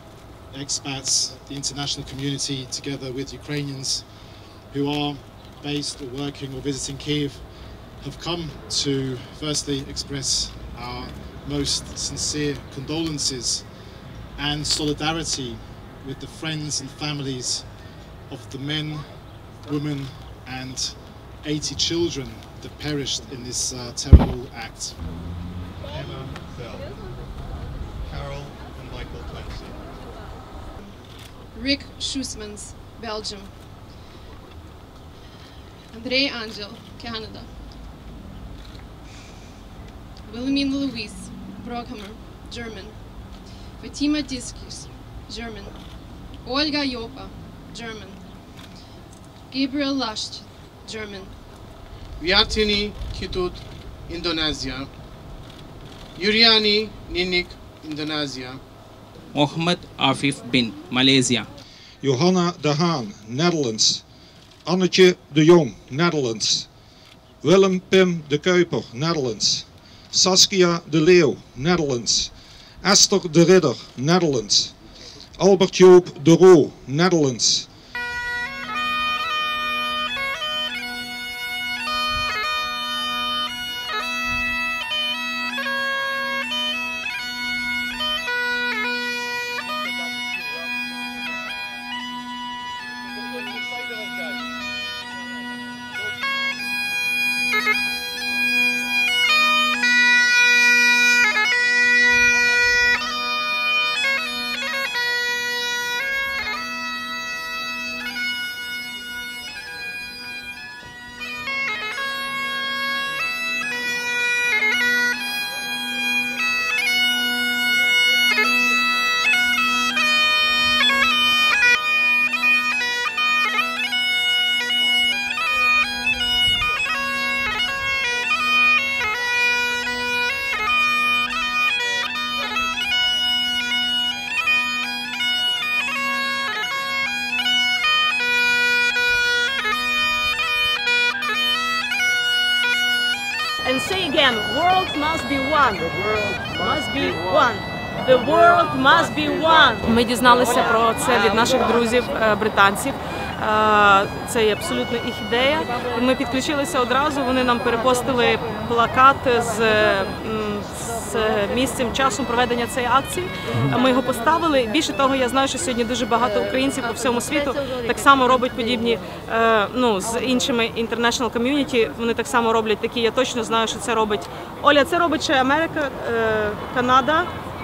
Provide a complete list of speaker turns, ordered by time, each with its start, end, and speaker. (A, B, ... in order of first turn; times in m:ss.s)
0:00.5-0:13.7 A
0:14.4-0:25.0 A
0:25.9-0:27.2 B
0:28.1-0:29.9 B
0:31.5-0:33.5 C
0:35.9-0:37.5 C
0:40.3-0:43.0 C
0:43.8-0:45.8 C
0:46.4-0:48.2 C
0:49.5-0:51.3 C
0:52.2-0:54.9 D
0:56.2-0:58.6 D
0:59.3-1:01.5 E
1:02.0-1:04.0 F
1:04.7-1:06.7 F
1:07.4-1:12.3 F
1:12.8-1:14.8 F
1:15.4-1:17.7 F
2:23.6-2:26.0 G
2:26.5-2:57.3 G